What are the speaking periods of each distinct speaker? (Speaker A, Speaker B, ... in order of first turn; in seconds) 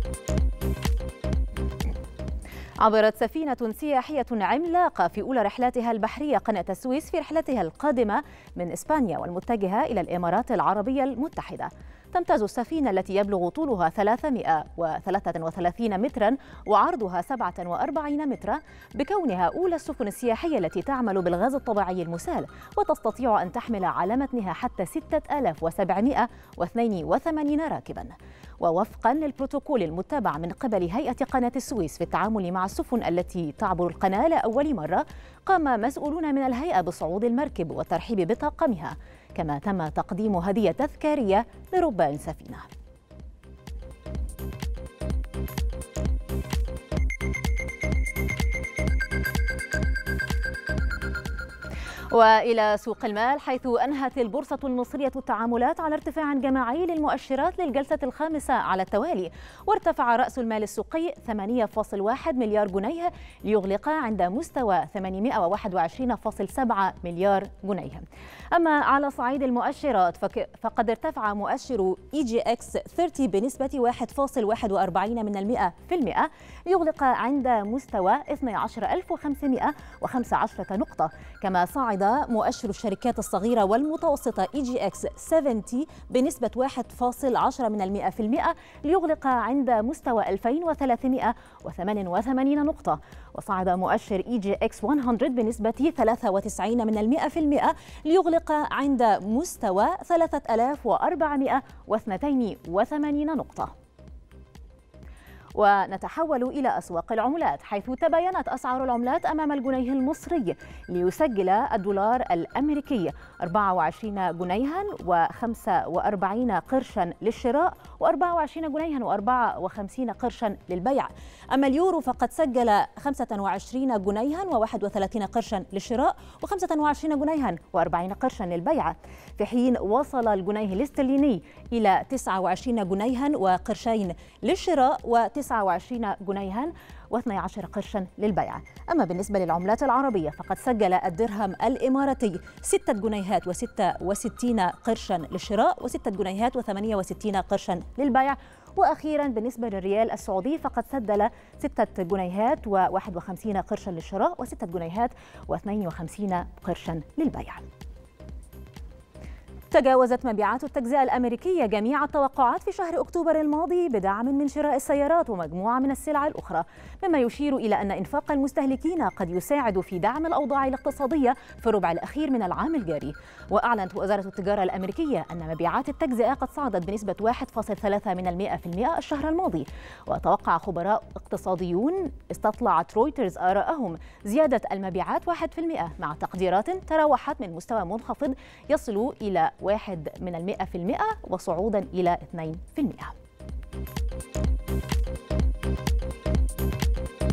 Speaker A: 2.8-42.7, 52.1-103.7, 105.5-157.7, 159.7-193.1